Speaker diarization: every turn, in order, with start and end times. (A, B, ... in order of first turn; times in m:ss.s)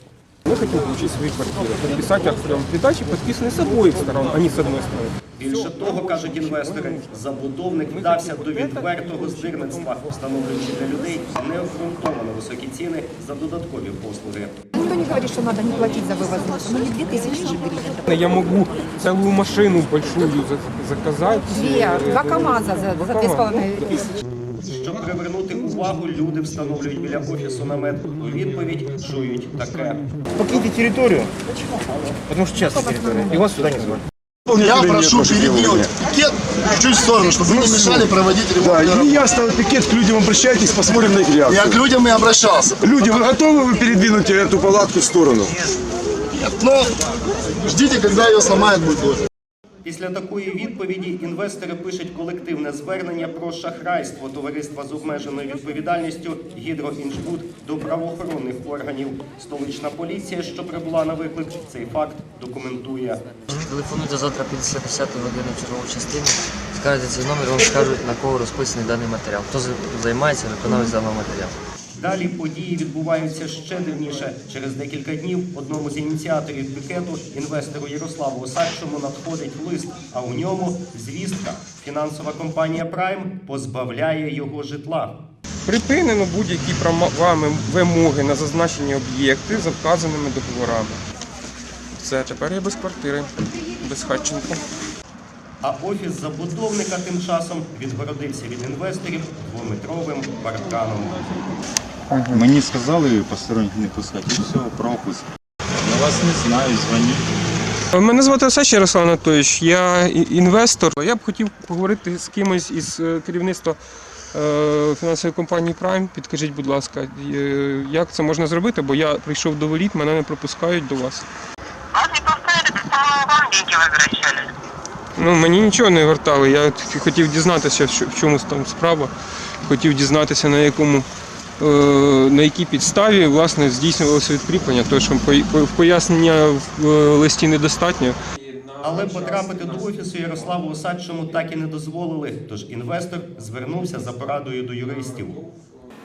0:00.5-0:07.1 A
0:05.4-0:14.6 B
0:07.9-0:09.9 A
0:14.8-0:17.9 C
0:17.9-0:24.2 A
0:21.5-0:24.0 C
0:24.6-0:30.0 B
0:32.6-0:34.0 D
0:32.7-0:33.4 C
0:34.5-0:39.3 E
0:34.6-0:35.9 D
0:34.6-0:35.2 F
0:37.5-0:38.0 D
0:38.7-0:40.6 D
0:39.2-0:41.5 F
0:40.8-0:43.0 E
0:41.4-0:41.7 D
0:43.0-0:45.6 F
0:44.1-0:45.2 E
0:46.3-0:46.9 E
0:47.6-0:49.2 E
0:49.8-1:03.2 B
1:03.5-1:11.6 G
1:12.0-1:25.2 B
1:25.7-1:31.0 A
1:32.0-1:34.6 A
1:35.6-1:41.3 B
1:42.1-1:42.5 A
1:42.3-1:45.3 H
1:45.8-1:47.2 H
1:47.9-1:53.8 A
1:54.3-2:01.3 A
2:01.9-2:04.5 I
2:05.2-2:09.1 A
2:09.6-2:11.1 A
2:11.6-2:25.9 A
2:18.8-2:25.4 B